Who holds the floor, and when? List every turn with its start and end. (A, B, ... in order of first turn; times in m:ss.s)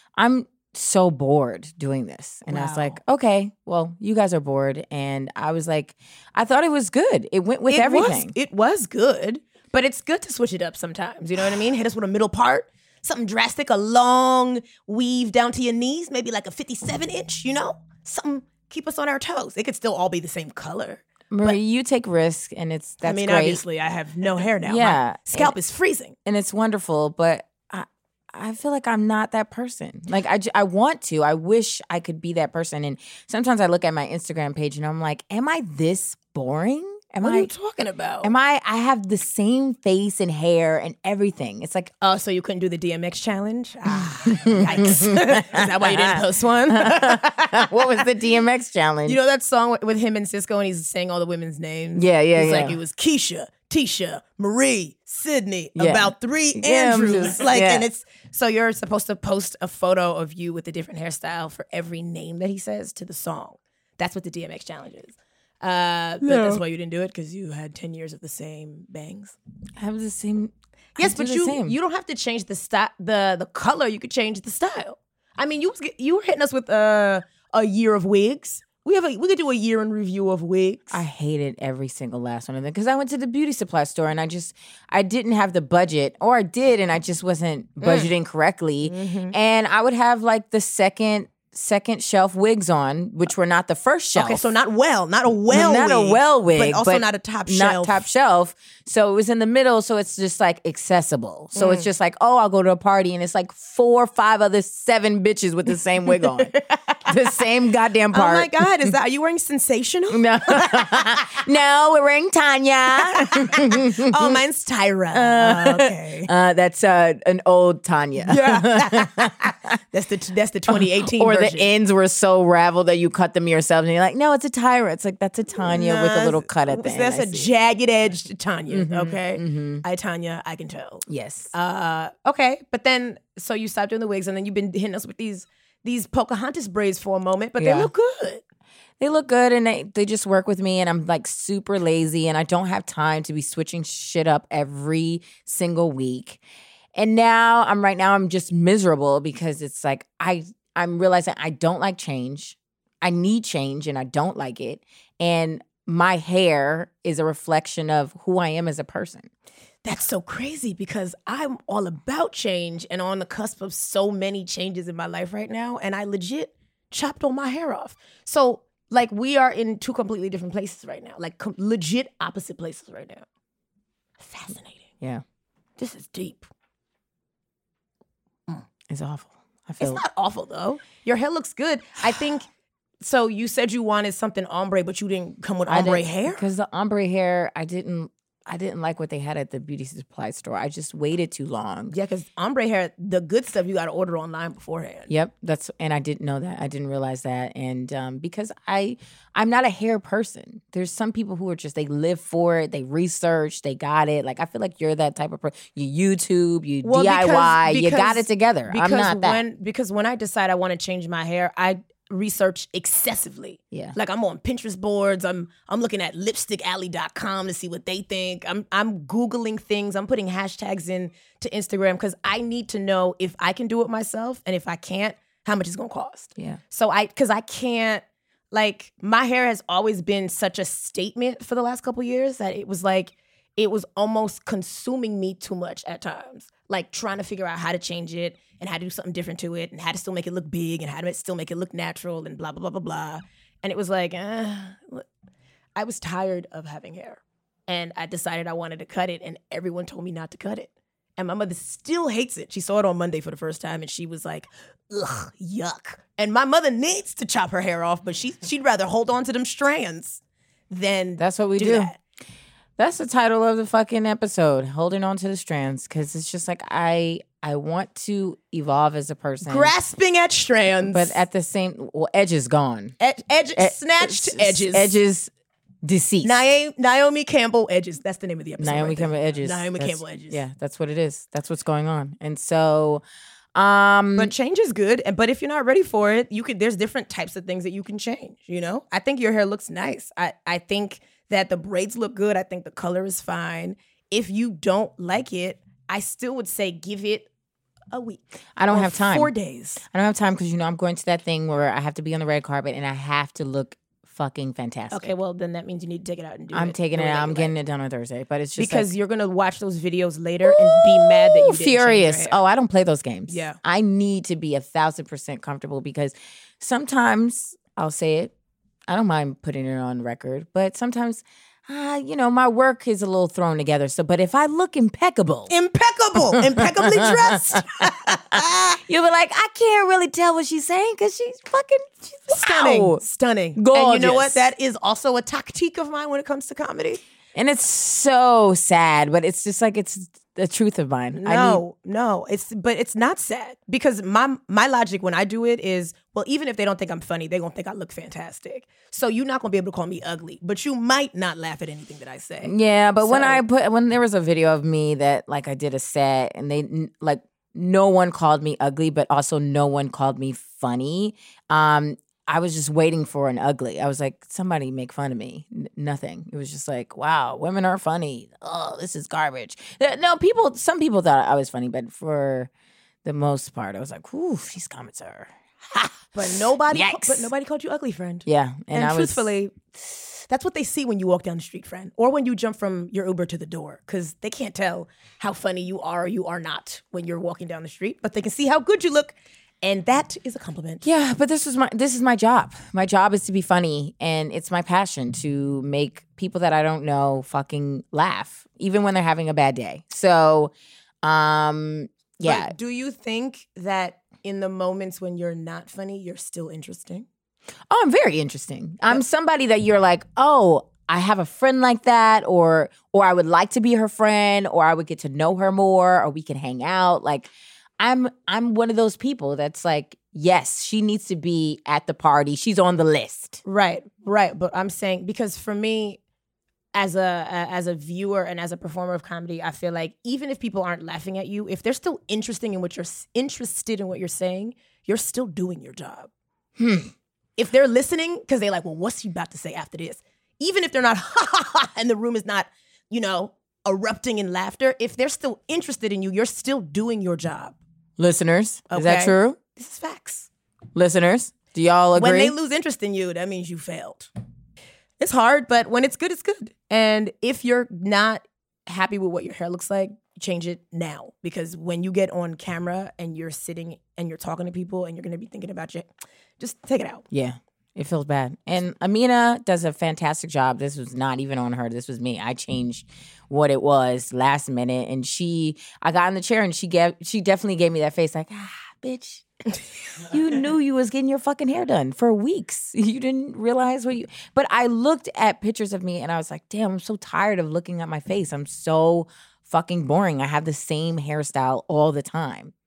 0:00.2-0:08.3 A
0:02.5-0:03.0 B
0:07.7-0:21.6 B
0:21.3-0:23.6 A
0:23.0-0:26.2 B
0:24.6-0:25.6 A
0:26.2-0:37.5 A
0:37.2-0:38.3 B
0:38.2-0:41.9 A
0:42.0-0:48.1 B
0:43.9-0:49.2 A
0:49.0-1:09.4 B
0:51.9-0:52.8 A
0:55.8-0:57.9 A
1:06.2-1:06.6 A
1:09.8-1:11.8 A
1:11.0-1:21.0 B
1:20.9-1:34.5 A
1:27.8-1:28.1 B
1:28.8-1:29.4 B
1:34.1-1:38.0 B
1:35.5-1:48.5 A
1:41.5-1:41.9 B
1:46.2-1:46.5 B
1:48.1-1:51.2 B
1:50.1-1:54.4 A
1:52.9-1:56.3 B
1:55.1-1:59.3 A
1:58.2-2:01.7 B
2:00.7-2:07.5 A
2:05.6-2:18.4 B
2:08.7-2:09.8 A
2:11.1-2:11.5 A
2:17.6-2:17.9 A
2:19.0-2:26.4 A
2:26.9-2:39.3 A
2:39.8-2:53.2 B
2:54.2-2:54.9 B
2:55.8-2:56.5 B
2:58.9-3:00.0 A
2:59.8-3:02.5 B
3:03.0-3:06.4 B
3:05.7-3:11.9 A
3:11.9-3:15.1 B
3:15.1-3:29.4 A
3:26.8-4:05.0 B
4:05.8-4:22.0 B
4:21.2-4:21.9 A
4:22.8-4:29.7 A
4:29.4-4:31.2 B
4:30.8-4:32.9 A
4:33.0-4:34.9 B
4:33.6-4:35.3 A
4:35.8-4:36.4 A
4:36.2-4:40.4 B
4:38.6-4:43.0 A
4:43.5-4:44.3 A
4:44.1-4:57.3 B
4:57.9-4:59.8 B
4:58.6-5:05.1 A
5:04.9-5:07.5 B
5:06.5-5:08.9 A
5:08.6-5:12.4 B
5:10.4-5:18.3 A
5:13.3-5:13.6 B
5:18.9-5:25.5 A
5:25.5-5:28.8 B
5:26.2-5:27.4 A
5:28.0-5:33.0 A
5:32.3-5:37.0 B
5:33.6-5:34.5 A
5:37.3-5:41.6 A
5:41.1-5:53.4 B
5:52.4-6:12.5 A
6:13.0-6:17.3 A
6:16.1-6:30.8 B
6:18.2-6:19.3 A
6:30.8-6:42.5 A
6:42.2-6:47.0 B
6:47.7-7:03.4 A
7:03.4-7:06.0 B
7:06.7-7:16.1 B
7:16.6-7:16.9 A
7:17.4-7:27.6 B
7:28.0-7:29.4 A
7:28.7-7:30.3 B
7:30.7-7:32.3 A
7:31.9-7:34.1 B
7:35.0-7:47.0 B
7:47.1-7:59.3 A
8:00.0-8:12.5 A